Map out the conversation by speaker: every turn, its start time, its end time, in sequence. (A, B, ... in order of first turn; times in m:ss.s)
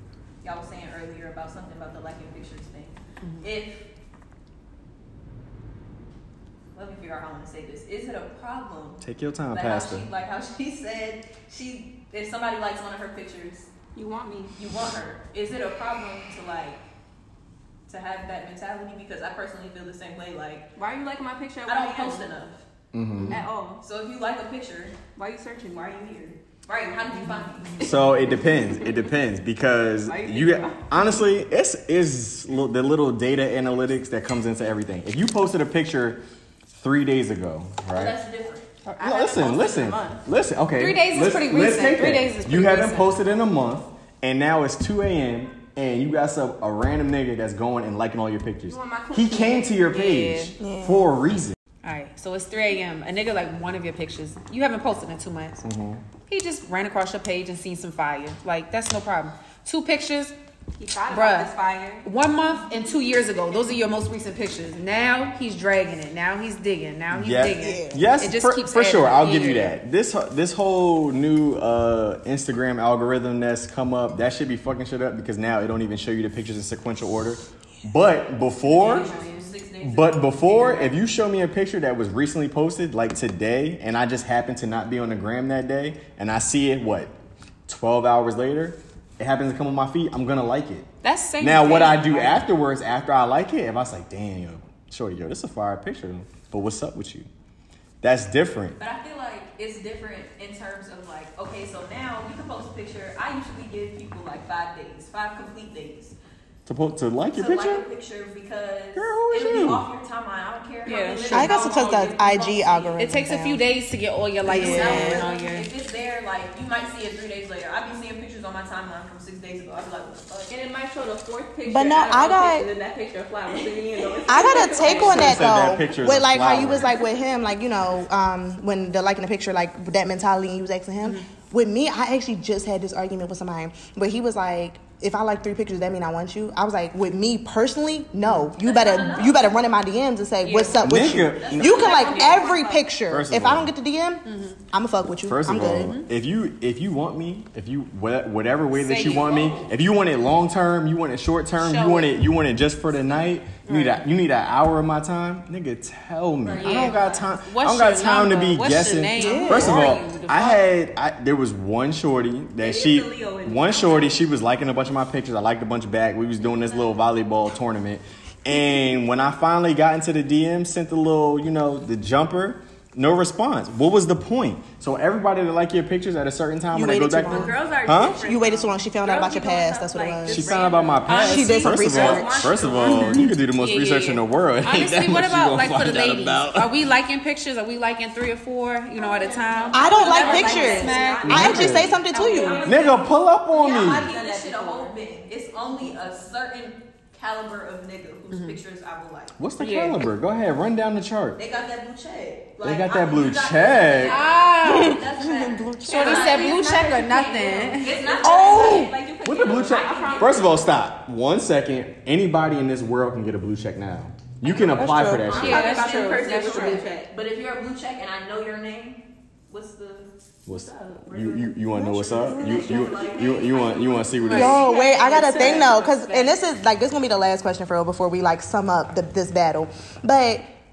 0:00.4-0:03.8 A
0:06.7-0:13.7 A
0:09.0-0:10.1 B
0:13.9-0:14.6 C
0:14.6-0:16.8 A
0:17.9-0:20.7 A
0:20.8-0:22.3 C
0:21.6-0:22.6 A
0:22.9-0:23.4 B
0:23.3-0:23.8 C
0:23.8-0:25.0 A
0:25.1-0:26.4 C
0:26.6-0:28.0 A
0:27.8-0:36.2 B
0:30.0-0:30.8 C
0:36.7-0:38.2 B
0:37.9-0:38.7 A
0:38.8-0:40.2 C
0:39.0-0:51.6 B
0:40.8-0:43.2 D
0:48.6-0:49.7 C
0:49.9-0:50.5 D
0:50.6-0:51.1 E
0:51.8-0:55.6 D
0:55.6-0:56.0 B
0:56.3-1:00.3 D
1:00.8-1:02.1 C
1:01.1-1:09.7 D
1:07.1-1:19.1 B
1:07.6-1:08.0 E
1:18.6-1:21.0 A
1:18.9-1:19.3 C
1:19.8-1:27.1 B
1:27.7-1:30.9 B
1:31.0-1:32.4 D
1:31.4-1:37.3 B
1:38.0-1:38.8 B
1:38.8-1:46.1 A
1:46.6-1:47.8 B
1:47.3-1:52.9 A
1:48.9-1:49.8 B
1:50.8-1:51.6 D
1:50.8-1:52.9 C
1:51.3-1:53.6 E
1:53.0-1:55.7 D
1:54.4-1:55.2 E
1:54.4-2:00.5 A
1:54.6-1:55.1 C
2:00.5-2:05.4 C
2:01.6-2:02.7 E
2:03.5-2:04.9 A
2:04.3-2:25.9 E
2:04.8-2:06.9 B
2:18.2-2:18.5 D
2:18.6-2:19.6 A
2:20.4-2:21.1 D
2:20.8-2:22.0 B
2:21.2-2:22.8 A
2:21.6-2:22.8 C
2:23.1-2:23.7 B
2:24.2-2:24.6 D
2:25.2-2:58.3 B
2:25.8-2:26.1 D
2:28.7-2:29.3 D
2:29.0-2:29.7 A
2:31.6-2:32.2 D
2:33.6-2:34.0 D
2:36.4-2:37.3 A
2:36.6-2:40.6 D
2:39.2-2:40.0 E
2:42.6-2:44.2 C
2:42.7-2:43.7 A
2:56.7-3:00.6 E
2:57.3-3:03.2 C
2:59.0-3:00.7 A
3:00.3-3:06.8 B
3:01.0-3:12.8 D
3:01.1-3:02.6 E
3:09.0-3:11.4 C
3:09.0-3:13.0 A
3:09.7-3:12.7 E
3:11.2-3:11.9 B
3:12.2-3:13.0 C
3:12.6-3:14.1 B
3:13.5-3:19.4 A
3:13.5-3:14.9 C
3:18.3-3:18.6 D
3:19.4-3:21.4 B
3:19.6-3:20.1 D
3:21.4-3:26.7 A
3:22.6-3:24.2 B
3:24.0-3:25.0 D
3:24.6-3:26.4 E
3:25.8-3:28.2 D
3:26.0-3:30.6 C
3:27.7-3:30.6 A
3:28.2-3:28.9 E
3:29.2-3:35.8 B
3:34.4-3:40.1 A
3:34.6-3:35.4 E
3:35.3-3:36.9 D
3:35.3-3:37.1 C
3:40.5-3:44.7 B
3:40.5-3:40.9 C
3:40.9-3:45.8 A
3:42.2-3:43.0 E
3:42.2-3:43.8 C
3:44.3-3:46.3 D
3:44.3-3:50.5 E
3:44.8-3:45.8 C